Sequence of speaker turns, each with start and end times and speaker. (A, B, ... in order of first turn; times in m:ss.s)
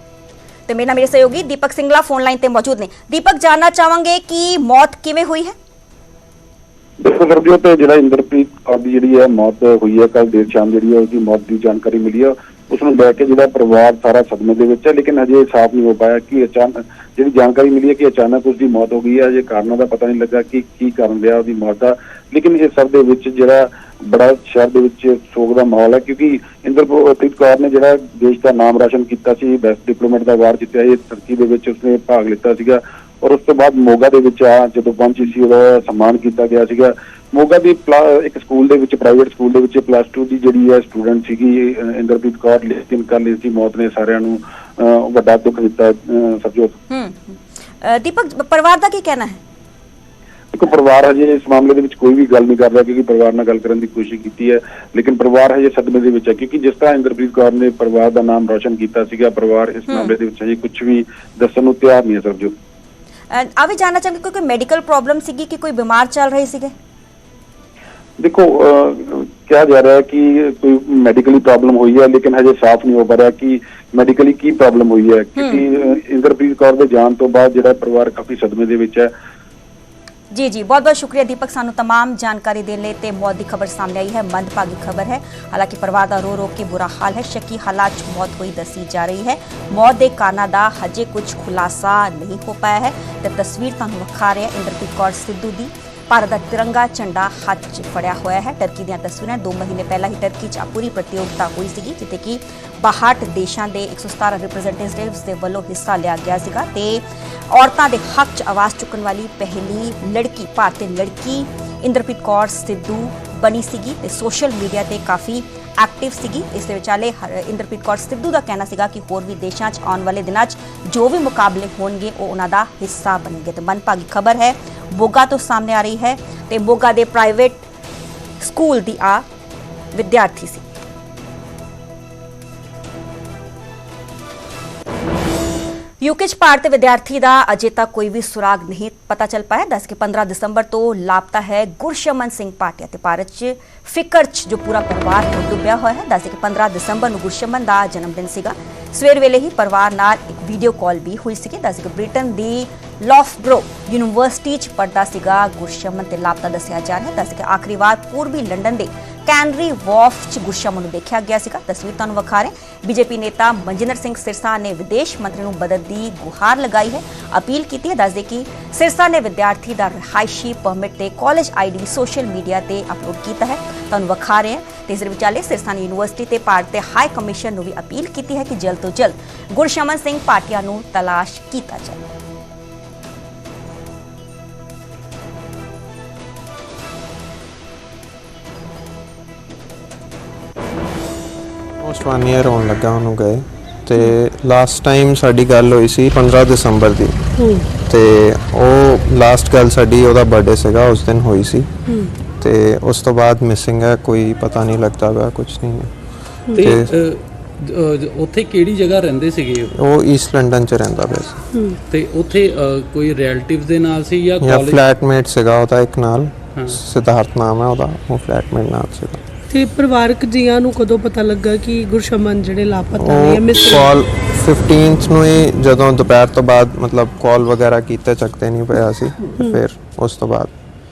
0:00.7-0:05.6 A
0:07.0-0:46.7 B
0:46.9-0:49.4 A
0:50.5-1:02.5 B
0:59.9-1:00.1 A
1:03.3-1:06.7 A
1:08.2-1:19.1 B
1:15.4-1:15.6 A
1:20.3-2:07.7 A
2:08.4-2:09.2 A
2:09.9-2:10.6 A
2:16.0-3:02.0 A
3:11.8-3:17.2 C
3:17.4-3:17.7 D
3:17.8-3:21.7 C
3:22.3-3:25.9 C
3:26.5-3:26.9 C
3:26.5-3:29.7 E
3:29.7-3:31.4 C
3:31.9-3:34.8 E
3:34.4-3:39.2 C
3:39.5-3:43.9 D
3:43.0-3:50.5 C